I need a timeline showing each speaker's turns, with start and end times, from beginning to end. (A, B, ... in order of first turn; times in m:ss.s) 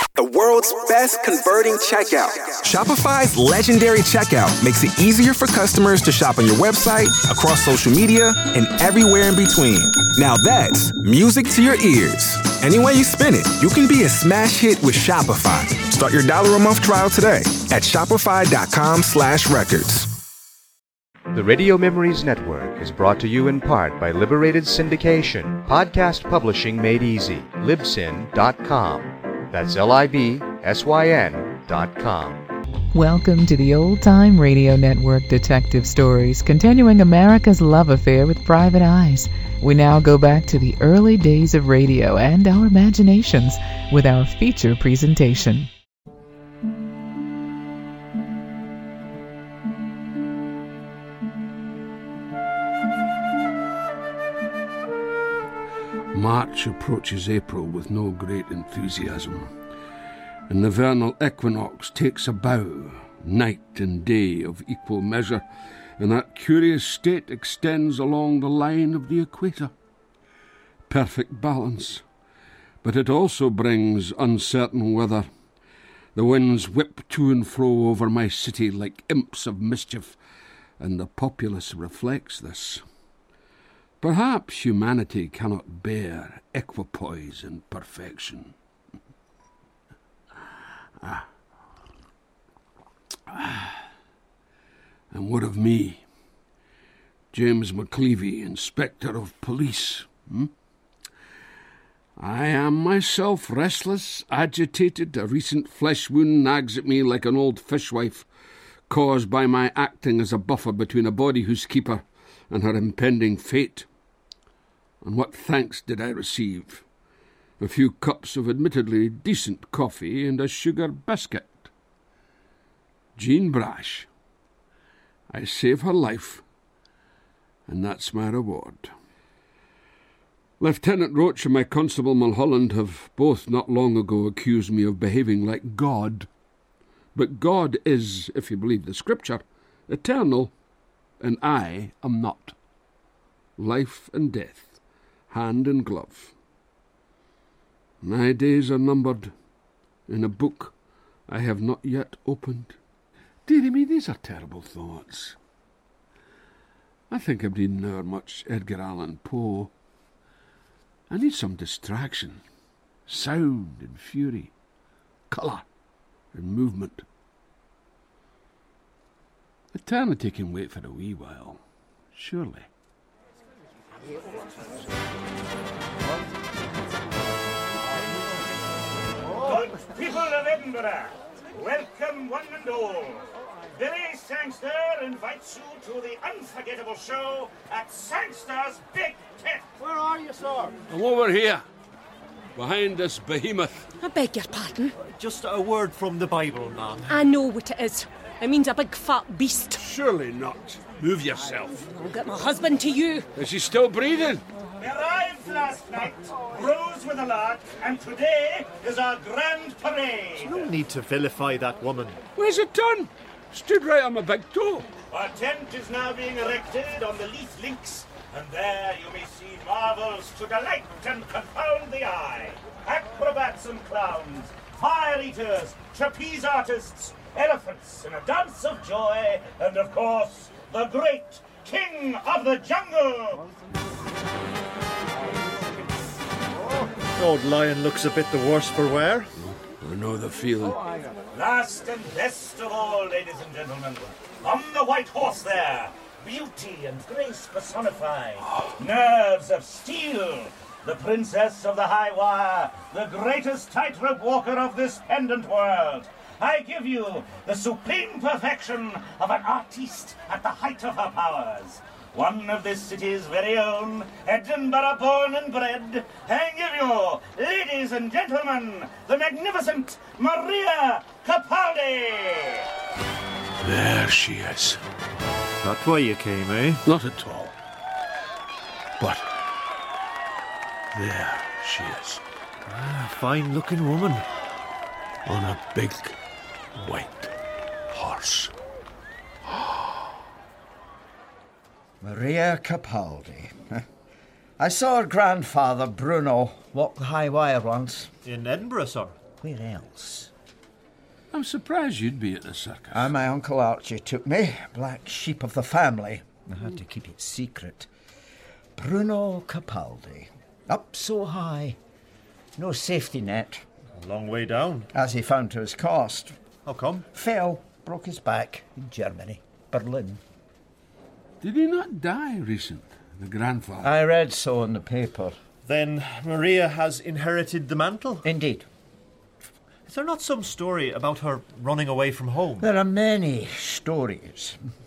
0:00.1-0:20.1 A
0:21.3-0:32.4 B
0:32.9-0:45.7 C
0:56.1-0:59.5 D
1:00.5-1:05.4 D
1:06.0-1:09.7 D
1:10.9-1:12.0 D
1:12.8-1:15.3 D
1:16.1-1:20.2 D
1:20.8-1:22.8 D
1:24.0-1:28.5 D
1:31.0-1:31.2 D
1:33.3-1:33.8 D
1:35.1-1:36.0 D
1:37.3-1:40.5 D
1:42.2-1:48.3 D
1:48.9-1:53.8 D
1:55.0-1:56.8 D
1:57.6-2:01.7 D
2:03.2-2:04.1 D
2:05.3-2:06.4 D
2:07.7-2:08.9 D
2:10.6-2:16.3 D
2:17.1-2:20.5 D
2:21.2-2:22.5 D
2:23.6-2:24.8 D
2:25.3-2:26.3 D
2:28.0-2:29.3 D
2:30.1-2:30.7 D
2:31.3-2:32.8 D
2:33.4-2:35.4 D
2:37.1-2:39.7 D
2:41.1-2:42.4 D
2:43.1-2:44.5 D
2:45.3-2:45.6 D
2:46.3-2:47.0 D
2:49.7-2:51.6 D
2:52.1-2:52.7 D
2:59.4-3:09.7 E
3:09.8-3:10.8 F
3:10.9-3:11.6 D
3:12.5-3:13.8 D
3:14.0-3:15.0 G
3:15.0-3:17.2 F
3:17.1-3:19.8 G
3:19.8-3:21.9 D
3:22.0-3:23.3 G
3:23.4-3:24.4 D
3:24.8-3:30.7 E
3:30.4-3:32.2 F
3:32.4-3:34.9 D
3:35.1-3:53.5 E
3:57.0-3:59.3 F
3:59.4-4:00.8 D
4:01.3-4:32.7 E
4:33.6-4:34.8 D
4:35.6-4:36.8 F
4:36.8-4:37.5 D
4:39.0-4:39.2 D
4:40.9-4:42.2 D
4:42.6-4:44.3 F
4:45.2-4:46.2 D
4:46.8-4:47.3 D
4:47.9-4:48.5 D
4:52.0-4:53.8 H
4:54.6-4:58.1 H
4:58.2-4:59.2 F
4:59.4-5:00.3 H
5:01.3-5:03.1 D
5:02.9-5:07.9 H
5:08.8-5:11.8 H
5:12.6-5:13.6 H
5:14.0-5:14.9 F
5:14.9-5:16.4 H
5:16.6-5:17.1 F
5:17.1-5:20.2 H
5:21.4-5:23.9 D
5:23.8-5:25.4 H
5:25.6-5:28.3 F
5:28.2-5:28.7 H
5:29.8-5:32.7 F
5:32.6-5:34.6 H